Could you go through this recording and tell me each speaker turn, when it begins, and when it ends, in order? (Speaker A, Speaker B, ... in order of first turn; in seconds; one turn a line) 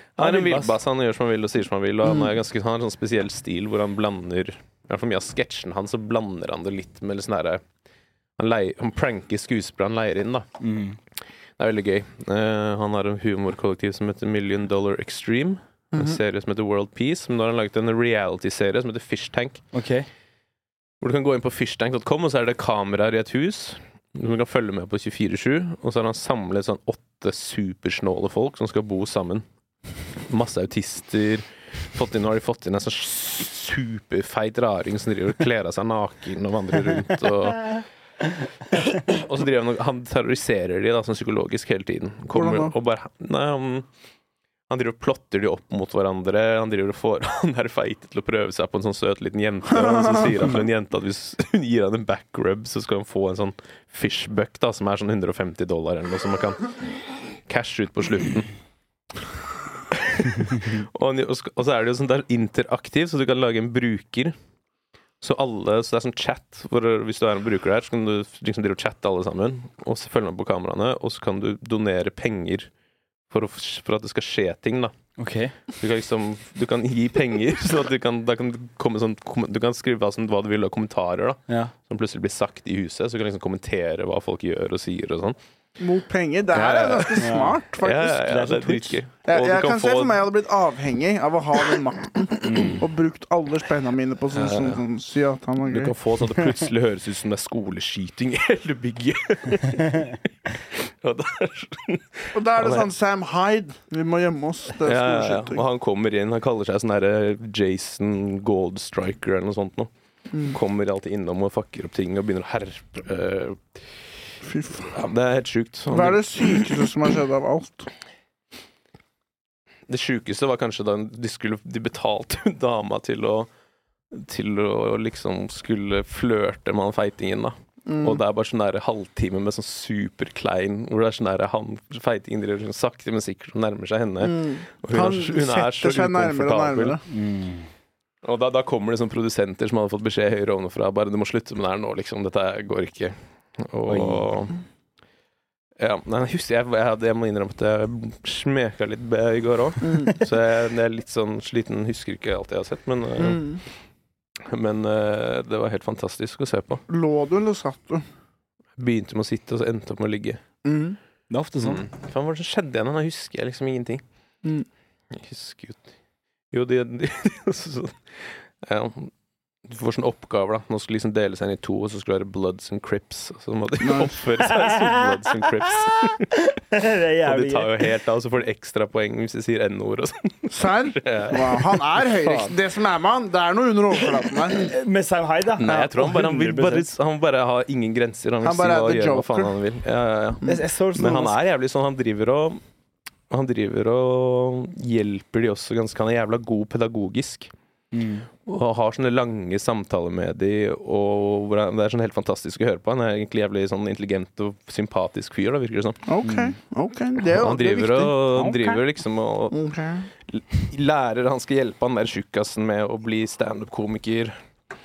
Speaker A: 0.2-7.6
Speaker B: 0.2-0.7
Speaker C: 2.1-2.3
Speaker A: 8.4-10.5
Speaker B: 10.6-11.0
Speaker A: 11.6-19.6
Speaker C: 15.9-16.2
Speaker B: 19.7-20.1
Speaker A: 21.0-29.4
Speaker A: 30.3-37.9
Speaker A: 38.7-43.9
Speaker C: 42.3-42.7
Speaker A: 44.7-56.8
Speaker C: 49.7-50.6
Speaker A: 57.5-58.5
Speaker A: 59.9-64.3
Speaker A: 65.2-72.7
Speaker A: 73.3-74.9
Speaker B: 75.2-75.5
Speaker A: 75.8-85.4
Speaker C: 85.8-88.6
Speaker A: 86.5-90.2
Speaker B: 87.2-87.6
Speaker B: 88.3-89.0
Speaker C: 89.3-95.9
Speaker B: 92.4-92.8
Speaker A: 94.3-94.8
Speaker A: 95.6-102.9
Speaker C: 102.3-105.6
Speaker A: 104.8-114.1
Speaker C: 110.3-110.6
Speaker C: 114.4-115.0
Speaker A: 114.9-116.8
Speaker C: 115.9-117.9
Speaker A: 119.9-123.5
Speaker A: 124.1-137.0
Speaker C: 127.9-128.2
Speaker C: 134.2-137.0
Speaker B: 137.1-137.7
Speaker A: 138.2-144.6
Speaker B: 143.9-144.3
Speaker A: 145.8-153.6
Speaker C: 149.8-150.2
Speaker C: 153.2-153.6
Speaker A: 154.4-156.8
Speaker C: 156.9-158.1
Speaker A: 158.8-160.4
Speaker C: 160.6-161.0
Speaker B: 161.3-161.8
Speaker A: 161.6-164.0
Speaker A: 165.1-165.8
Speaker A: 166.5-169.1
Speaker A: 169.7-176.3
Speaker C: 173.8-174.2
Speaker B: 174.4-177.8
Speaker A: 177.2-181.8
Speaker C: 180.5-184.8
Speaker B: 182.2-182.5
Speaker B: 184.5-186.9
Speaker A: 185.6-192.6
Speaker C: 188.4-189.6
Speaker B: 190.4-191.4
Speaker A: 193.3-197.5
Speaker B: 197.9-198.3
Speaker A: 198.4-206.1
Speaker C: 206.1-208.2
Speaker B: 206.2-206.6
Speaker A: 207.3-209.6
Speaker B: 208.3-208.8
Speaker C: 209.5-210.1
Speaker A: 210.3-214.4